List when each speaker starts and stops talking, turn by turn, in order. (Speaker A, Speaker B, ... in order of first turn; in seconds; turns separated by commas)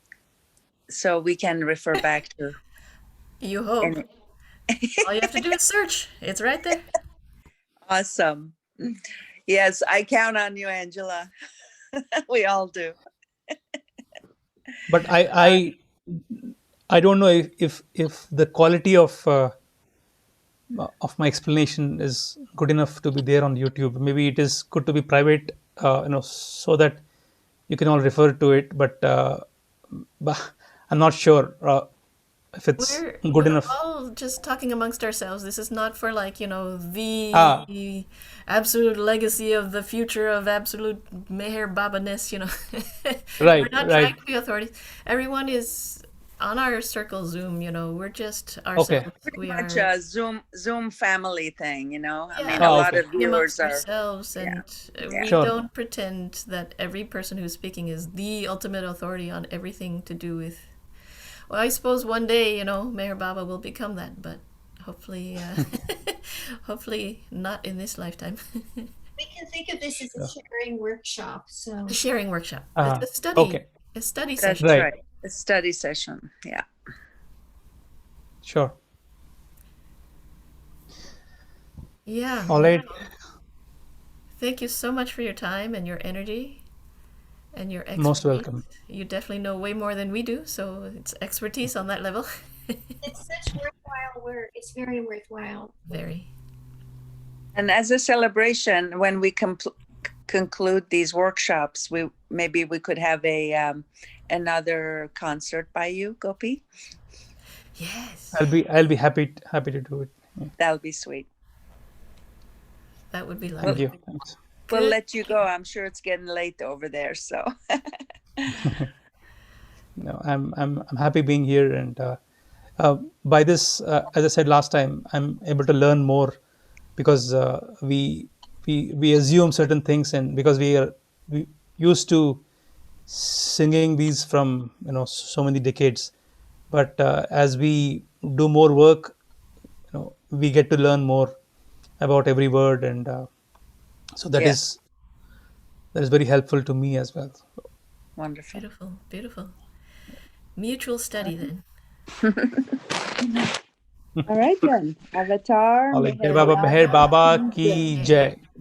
Speaker A: 0.9-2.5, Speaker B: 3.4-4.0, Speaker A: 4.7-5.0, Speaker B: 5.0-6.8, Speaker A: 7.9-8.9, Speaker A: 9.5-11.3, Speaker A: 12.0-13.0, Speaker C: 14.9-19.5, Speaker C: 20.7-27.0, Speaker C: 27.7-31.9, Speaker C: 32.5-33.7, Speaker B: 32.8-49.9, Speaker C: 37.3-37.6, Speaker C: 43.4-44.1, Speaker C: 48.8-49.1, Speaker A: 49.4-53.8, Speaker B: 52.3-60.7, Speaker C: 52.6-53.0, Speaker A: 54.4-55.3, Speaker C: 55.3-55.5, Speaker B: 61.5-68.9, Speaker D: 69.2-72.0, Speaker B: 71.9-74.8, Speaker C: 72.8-73.6, Speaker A: 74.4-76.6, Speaker C: 74.6-74.9, Speaker C: 78.4-78.8, Speaker B: 82.0-83.0, Speaker C: 82.5-83.0, Speaker B: 84.4-86.6, Speaker B: 87.5-92.9, Speaker C: 88.0-88.6, Speaker D: 93.0-95.8, Speaker B: 95.9-96.3, Speaker A: 97.5-99.7, Speaker A: 100.3-106.6, Speaker B: 107.8-108.4, Speaker C: 108.3-110.5, Speaker A: 110.6-111.3, Speaker B: 113.1-113.8, Speaker C: 113.6-114.3, Speaker A: 114.7-118.6, Speaker B: 114.7-115.0, Speaker C: 118.6-118.9, Speaker C: 120.0-122.2, Speaker C: 122.8-126.4, Speaker C: 127.0-132.4, Speaker C: 133.1-136.1, Speaker C: 136.7-139.2, Speaker C: 139.9-141.3, Speaker C: 142.0-143.3, Speaker C: 144.2-144.8, Speaker C: 145.9-147.5, Speaker A: 148.2-148.6, Speaker B: 148.5-149.6, Speaker B: 150.6-151.6, Speaker A: 152.2-152.6, Speaker A: 153.2-153.5, Speaker A: 154.3-157.9, Speaker C: 155.9-158.4, Speaker B: 157.9-158.3